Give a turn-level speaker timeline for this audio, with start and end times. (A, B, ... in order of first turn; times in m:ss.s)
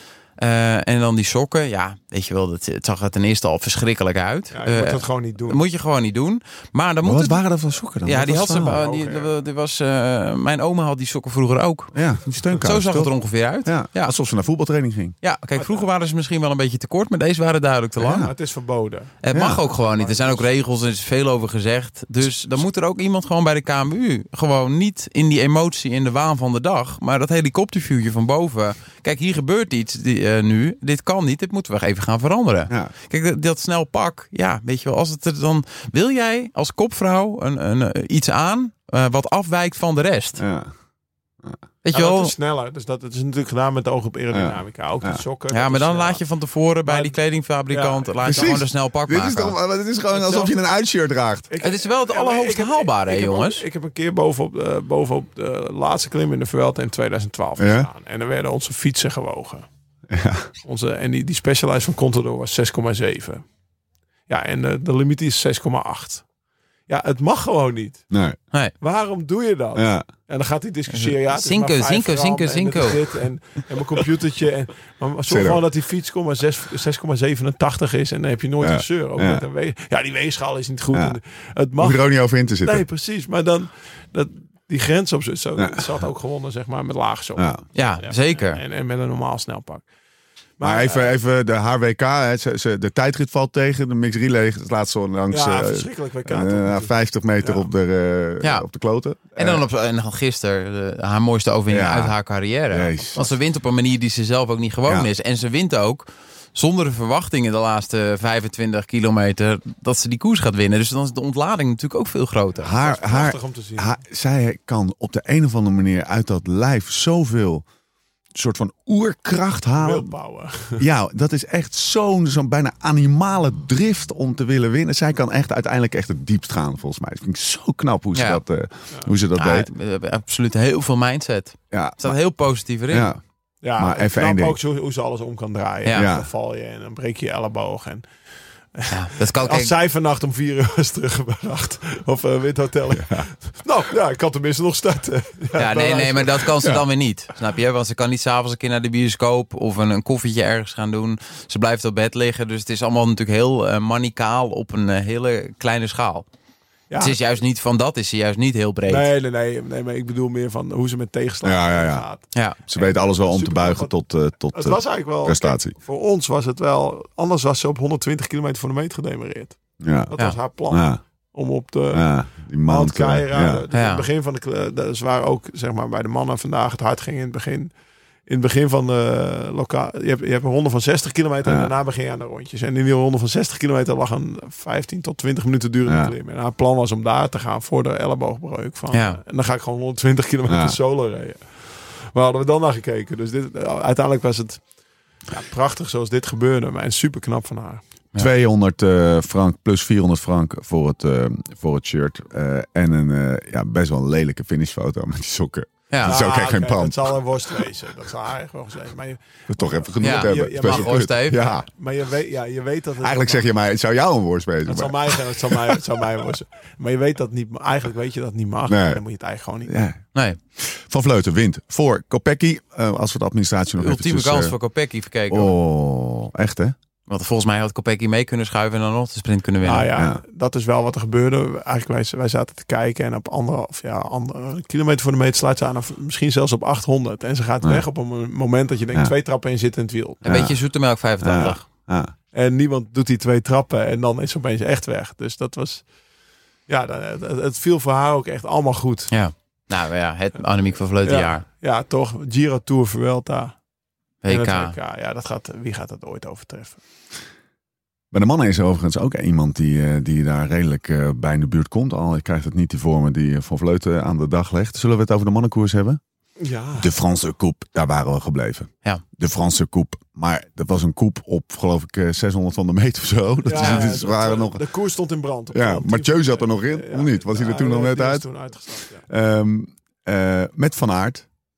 0:00.4-0:07.4 A
0:04.5-0:05.6 B
0:07.0-0:08.8 C
0:08.0-0:11.9 A
0:08.6-0:09.3 B
0:11.9-0:13.1 C
0:12.5-0:14.1 A
0:13.6-0:15.2 C
0:15.2-0:18.3 A
0:15.6-0:15.9 B
0:18.0-0:18.3 C
0:18.2-0:19.2 B
0:19.2-0:40.4 A
0:19.3-0:19.6 C
0:19.7-0:20.5 B
0:40.4-0:40.7 C
0:41.8-0:42.3 A
0:41.9-0:46.2 B
0:44.3-0:45.2 C
0:45.5-0:49.6 A
0:46.9-0:47.2 B
0:47.7-0:48.6 B
0:48.2-0:51.5 C
0:50.1-0:50.5 B
0:51.5-0:59.7 B
0:51.6-0:53.6 A
0:57.6-0:57.9 C
1:00.1-1:00.5 C
1:00.6-1:03.4 B
1:04.3-1:06.2 B
1:06.9-1:08.1 B
1:08.1-1:08.4 C
1:08.8-1:22.0 B
1:09.8-1:10.1 C
1:10.9-1:13.1 A
1:15.3-1:15.6 C
1:18.6-1:19.4 C
1:21.8-1:22.8 C
1:22.6-1:29.8 B
1:25.6-1:25.9 C
1:27.4-1:27.6 C
1:27.8-1:28.6 A
1:30.6-1:31.1 B
1:30.6-1:39.6 C
1:35.3-1:37.6 B
1:39.4-1:52.7 A
1:41.7-1:42.2 C
1:42.7-1:43.2 C
1:52.6-1:57.6 C
1:52.7-1:53.9 B
1:58.4-2:00.1 C
1:59.8-2:00.8 B
2:00.8-2:09.7 C
2:08.2-2:08.4 A
2:09.4-2:13.1 A
2:11.7-2:12.2 C
2:12.9-2:13.2 C
2:13.6-2:18.0 B
2:13.8-2:14.6 C
2:15.9-2:16.3 C
2:18.8-2:26.5 B
2:18.9-2:19.7 A
2:22.9-2:23.3 C
2:25.6-2:36.2 A
2:36.9-2:37.2 B
2:37.0-2:39.1 A
2:38.9-2:43.9 B
2:41.4-2:42.1 C
2:42.3-2:42.6 A
2:42.7-2:45.8 C
2:44.5-2:52.1 B
2:49.8-2:50.2 C
2:50.7-2:51.0 C
2:51.9-2:53.6 C
2:52.7-2:57.7 B
2:53.7-2:54.1 A
2:58.3-3:14.6 B
3:01.4-3:01.7 C
3:05.9-3:06.1 C
3:08.9-3:09.2 A
3:10.5-3:10.8 C
3:15.3-3:17.8 B
3:18.2-3:27.6 C
3:25.9-3:26.2 A
3:26.0-3:33.4 B
3:29.5-3:31.7 C
3:30.0-3:31.4 A
3:33.0-3:35.8 C
3:34.7-3:39.7 B
3:38.7-3:39.0 C
3:39.7-3:40.0 C
3:40.6-3:44.6 C
3:43.8-3:45.5 A
3:45.3-3:46.8 C
3:47.1-3:49.9 A
3:49.6-4:00.2 B
3:50.0-3:50.2 C
4:00.2-4:00.6 C
4:00.2-4:01.6 A
4:01.2-4:02.1 C
4:02.3-4:05.8 B
4:06.7-4:09.1 B
4:09.1-4:11.4 A
4:11.0-4:13.6 B
4:14.2-4:14.8 A
4:14.3-4:16.8 B
4:18.1-4:26.0 C
4:26.4-4:26.9 B
4:26.8-4:34.6 C
4:33.4-4:39.0 B
4:33.6-4:33.9 A
4:35.5-4:38.3 C
4:39.1-4:41.3 C